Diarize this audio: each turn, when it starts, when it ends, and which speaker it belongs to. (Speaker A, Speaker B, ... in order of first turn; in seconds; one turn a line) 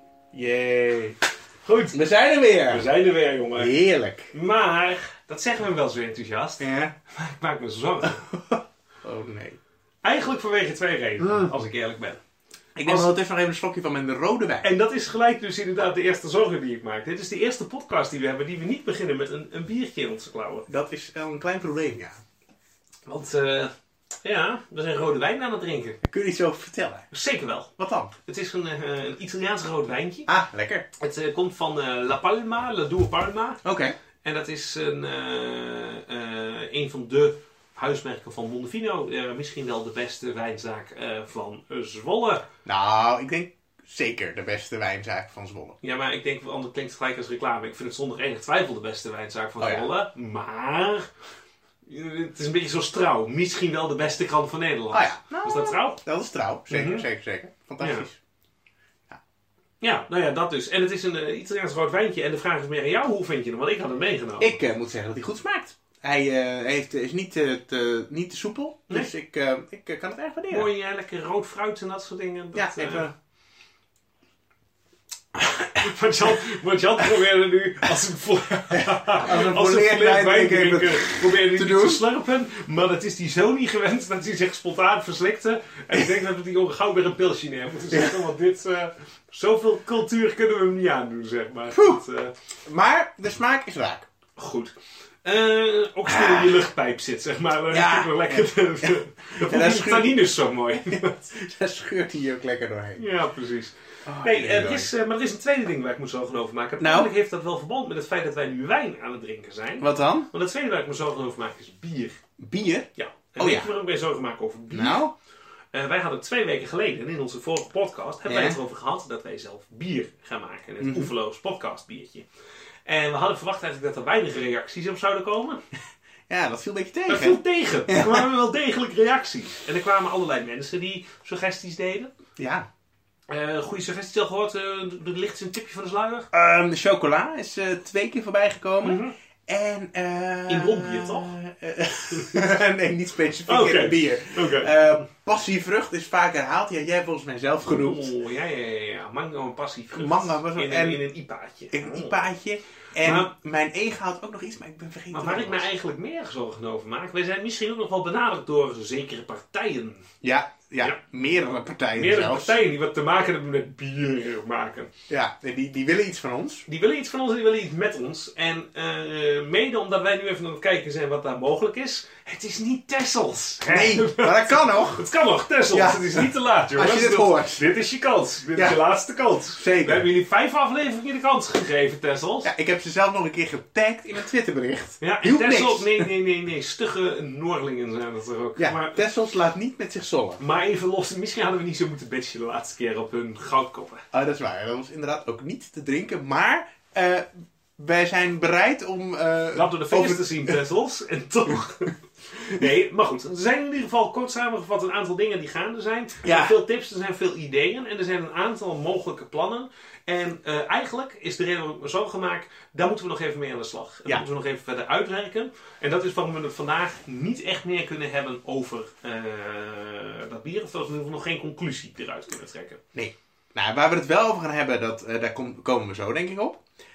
Speaker A: 0.3-1.2
Speaker B: 1.6-2.0
Speaker A: 1.9-2.9
Speaker B: 2.7-3.8
Speaker A: 3.5-4.3
Speaker B: 4.3-8.2
Speaker A: 6.6-6.9
Speaker A: 8.0-9.6
Speaker B: 10.0-12.2
Speaker A: 11.2-11.5
Speaker A: 12.8-14.7
Speaker B: 14.6-20.7
Speaker A: 20.7-22.2
Speaker B: 23.1-23.7
Speaker B: 24.2-26.0
Speaker A: 26.0-27.1
Speaker B: 27.1-27.7
Speaker A: 27.8-28.1
Speaker B: 28.2-30.3
Speaker A: 30.3-30.9
Speaker B: 31.0-33.6
Speaker A: 33.6-34.0
Speaker B: 34.2-42.4
Speaker A: 42.6-45.8
Speaker B: 45.8-51.1
Speaker A: 49.6-49.9
Speaker B: 51.9-56.0
Speaker A: 54.9-58.2
Speaker B: 56.7-57.1
Speaker B: 57.8-58.0
Speaker B: 59.8-64.5
Speaker A: 64.4-70.7
Speaker B: 70.5-73.1
Speaker A: 72.5-73.1
Speaker B: 75.8-92.3
Speaker A: 78.7-82.0
Speaker A: 87.9-88.2
Speaker A: 91.7-92.0
Speaker A: 92.7-94.1
Speaker B: 94.3-101.2
Speaker A: 96.1-96.6
Speaker A: 97.7-103.0
Speaker B: 103.0-112.2
Speaker A: 104.0-104.9
Speaker A: 106.8-107.1
Speaker A: 109.8-110.3
Speaker A: 112.4-113.7
Speaker B: 112.9-115.0
Speaker A: 114.7-115.1
Speaker B: 115.7-122.2
Speaker A: 118.2-118.6
Speaker A: 120.8-121.1
Speaker B: 122.8-125.6
Speaker A: 126.3-128.3
Speaker B: 127.1-132.1
Speaker A: 132.4-132.7
Speaker B: 133.3-136.3
Speaker A: 136.3-148.1
Speaker B: 138.8-139.1
Speaker B: 140.5-141.4
Speaker B: 143.4-145.0
Speaker B: 147.6-152.2
Speaker A: 149.9-151.0
Speaker A: 151.7-155.7
Speaker B: 153.0-153.3
Speaker B: 155.1-160.1
Speaker A: 160.2-162.6
Speaker B: 161.9-164.9
Speaker A: 165.1-166.7
Speaker B: 166.7-182.5
Speaker A: 173.6-175.1
Speaker A: 175.7-177.7
Speaker A: 178.5-178.8
Speaker A: 179.6-180.1
Speaker A: 182.4-186.1
Speaker B: 185.0-189.0
Speaker A: 188.6-190.4
Speaker B: 190.4-194.0
Speaker A: 194.1-200.6
Speaker B: 199.5-222.8
Speaker A: 206.2-206.6
Speaker A: 222.9-226.6